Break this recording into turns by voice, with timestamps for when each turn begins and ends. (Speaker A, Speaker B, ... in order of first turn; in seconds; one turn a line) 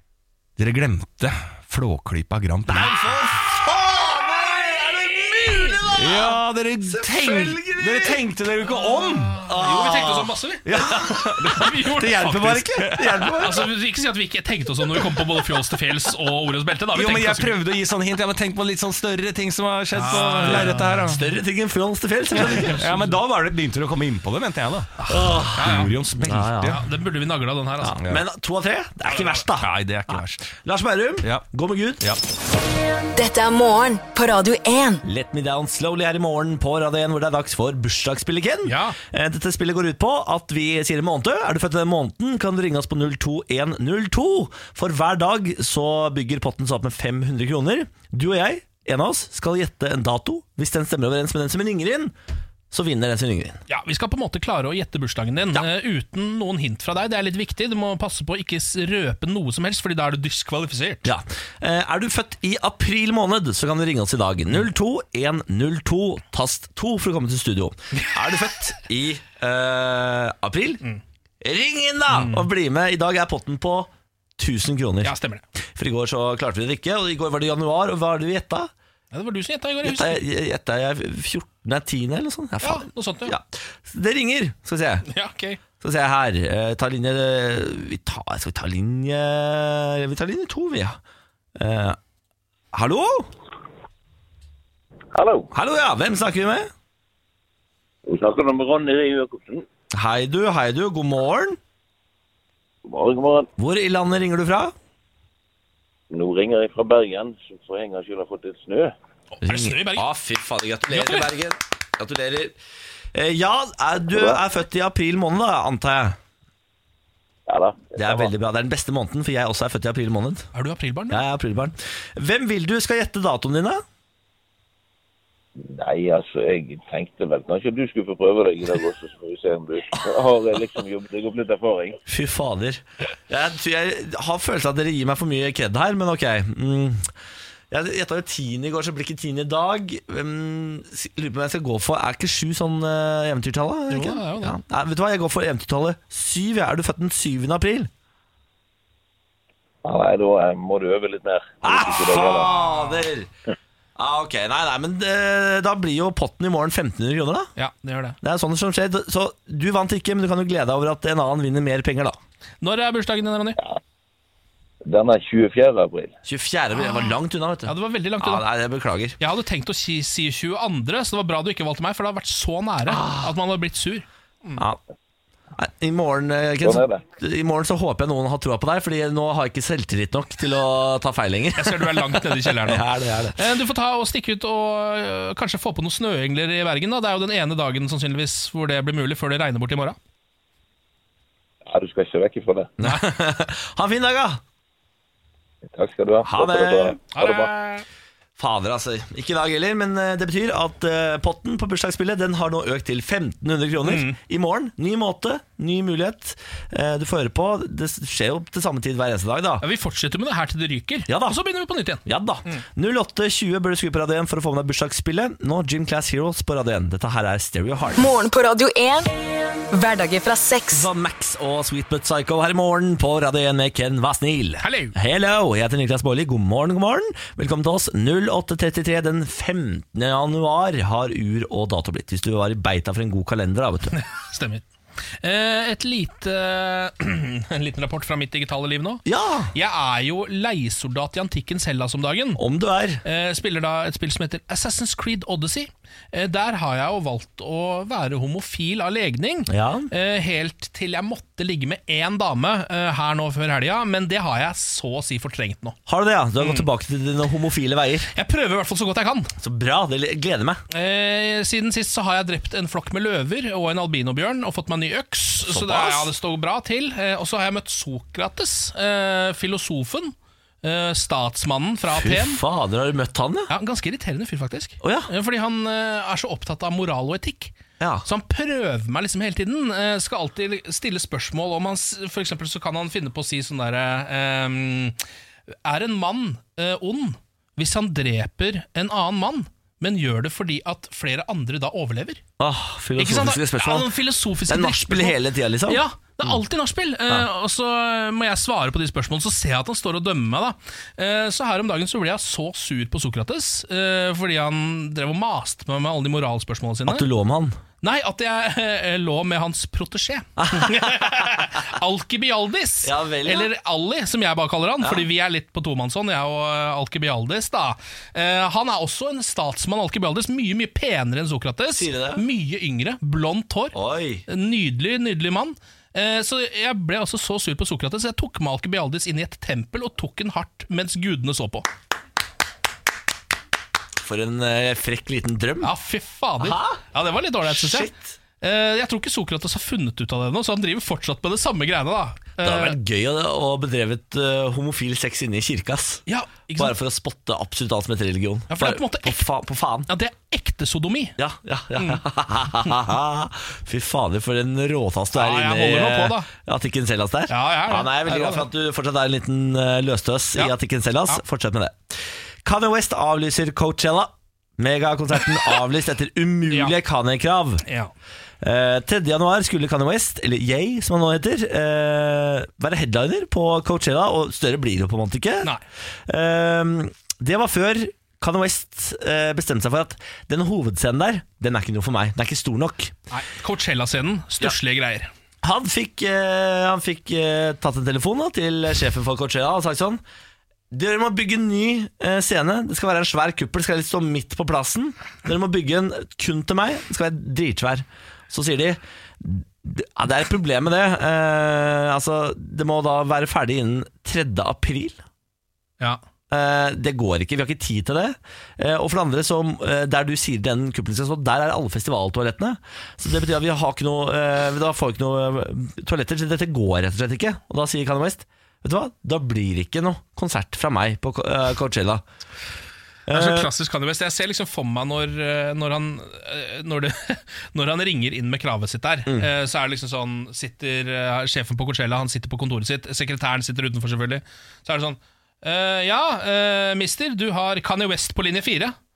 Speaker A: 0.6-3.0
Speaker B: 2.7-8.2
Speaker A: 5.9-9.5
Speaker C: 8.9-10.7
Speaker B: 9.4-13.7
Speaker A: 10.7-13.5
Speaker C: 11.4-12.6
Speaker C: 13.3-17.6
Speaker A: 16.9-21.3
Speaker C: 19.9-21.0
Speaker B: 20.1-22.9
Speaker A: 22.4-26.8
Speaker C: 22.5-23.0
Speaker C: 25.1-25.9
Speaker B: 25.1-26.8
Speaker C: 26.7-28.0
Speaker B: 27.8-32.2
Speaker A: 28.0-28.2
Speaker C: 29.1-29.4
Speaker A: 29.6-30.6
Speaker D: 33.1-35.0
Speaker B: 35.0-52.1
Speaker C: 38.6-39.0
Speaker B: 52.7-53.6
Speaker C: 53.7-61.1
Speaker B: 61.0-70.8
Speaker B: 71.4-75.2
Speaker C: 72.1-72.5
Speaker C: 75.0-75.5
Speaker B: 75.7-78.7
Speaker C: 79.1-80.2
Speaker B: 79.8-85.1
Speaker C: 82.6-83.4
Speaker C: 85.1-85.6
Speaker B: 85.8-91.0
Speaker B: 91.6-92.0
Speaker B: 92.7-93.3
Speaker E: 95.1-95.5
Speaker B: 95.5-96.7
Speaker E: 98.1-99.7
Speaker B: 99.9-101.6
Speaker E: 102.8-103.5
Speaker B: 103.6-104.7
Speaker E: 106.1-108.9
Speaker C: 109.3-110.1
Speaker B: 109.4-112.6
Speaker C: 110.9-111.3
Speaker B: 113.1-116.2
Speaker E: 114.1-114.4
Speaker E: 117.5-118.3
Speaker B: 118.0-120.5
Speaker C: 120.5-121.2
Speaker B: 121.1-123.8
Speaker E: 125.6-132.0
Speaker B: 132.1-137.1
Speaker B: 137.7-147.9
Speaker C: 143.9-144.6
Speaker E: 149.8-152.5
Speaker B: 151.6-153.3
Speaker C: 152.3-153.1
Speaker B: 154.0-157.5
Speaker C: 157.6-158.2
Speaker B: 158.2-162.2
Speaker C: 162.6-163.6
Speaker E: 164.8-166.2
Speaker B: 166.2-169.2
Speaker C: 166.8-167.2
Speaker C: 167.7-168.4
Speaker C: 169.2-174.6
Speaker B: 172.9-173.3
Speaker B: 175.6-183.4
Speaker E: 176.6-177.0
Speaker C: 181.6-190.0
Speaker E: 191.7-192.7
Speaker B: 192.8-194.4
Speaker E: 195.7-197.5
Speaker B: 196.2-197.0
Speaker C: 197.1-197.9
Speaker B: 198.4-209.7
Speaker C: 203.8-204.2
Speaker C: 209.6-212.6
Speaker B: 211.1-211.4
Speaker B: 212.0-218.1
Speaker D: 218.0-219.1
Speaker D: 219.7-220.9
Speaker B: 220.7-234.0
Speaker C: 224.6-224.9
Speaker C: 233.9-234.7
Speaker C: 235.2-242.4
Speaker B: 239.1-239.5
Speaker B: 242.4-243.0
Speaker C: 243.0-255.8
Speaker B: 249.5-249.9
Speaker B: 255.9-258.1
Speaker C: 256.4-256.7
Speaker C: 258.1-259.3
Speaker B: 259.4-260.6
Speaker C: 260.7-272.4
Speaker B: 265.4-266.1
Speaker B: 271.9-273.5
Speaker C: 273.5-277.5
Speaker B: 274.8-275.1
Speaker B: 277.8-278.1
Speaker C: 278.1-285.0
Speaker C: 285.6-292.2
Speaker B: 292.4-293.9
Speaker C: 293.0-307.1
Speaker B: 294.5-296.3
Speaker B: 306.9-307.6
Speaker C: 307.8-323.8
Speaker B: 310.4-311.4
Speaker B: 312.8-313.5
Speaker B: 314.8-315.1
Speaker B: 321.7-322.2
Speaker B: 323.7-324.3
Speaker C: 324.3-331.7
Speaker B: 334.0-335.7
Speaker C: 335.6-337.9
Speaker B: 336.4-336.8
Speaker B: 337.5-338.2
Speaker C: 338.4-342.8
Speaker B: 342.4-346.0
Speaker C: 346.1-346.8
Speaker B: 346.6-349.9
Speaker C: 348.5-349.2
Speaker C: 349.9-351.2
Speaker B: 351.2-367.6
Speaker C: 355.1-356.3
Speaker C: 357.3-358.5
Speaker C: 367.6-367.9
Speaker B: 368.4-375.5
Speaker B: 376.1-383.0
Speaker C: 383.1-385.1
Speaker B: 385.4-390.0
Speaker B: 390.7-405.0
Speaker B: 406.3-422.0
Speaker B: 423.1-423.5
Speaker C: 423.1-438.8